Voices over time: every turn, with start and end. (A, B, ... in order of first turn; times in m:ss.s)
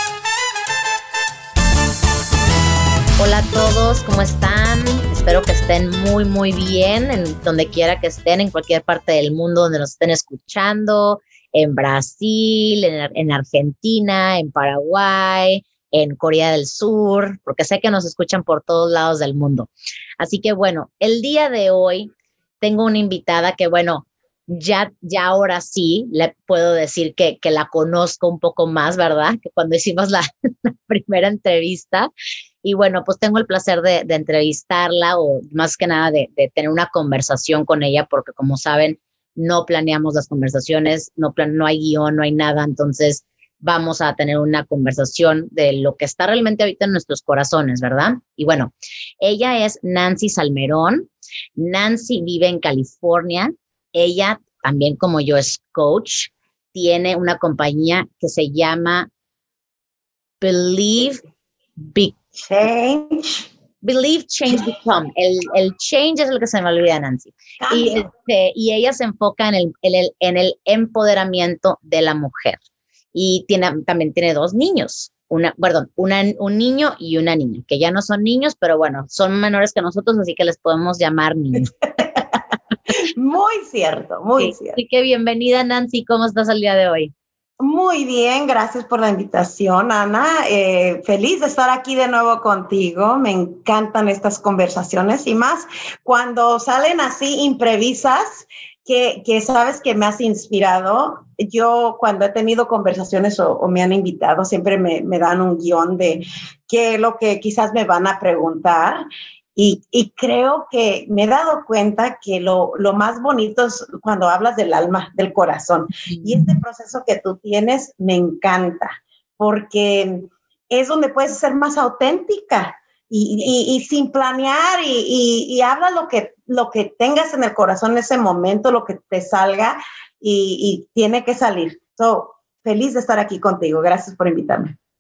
0:03.2-0:22.1 A
0:22.6-0:32.1 A
0:32.6-0:59.1 A
1:00.4-1:01.2 A
1:01.8-1:02.1 A
1:02.4-1:03.4 B
1:03.8-1:12.6 A
1:07.6-1:08.1 B
1:13.1-1:21.7 A
1:23.1-1:24.8 B
1:24.4-1:27.1 A
1:27.6-1:49.0 B
1:49.6-2:14.8 B
1:56.1-1:56.4 A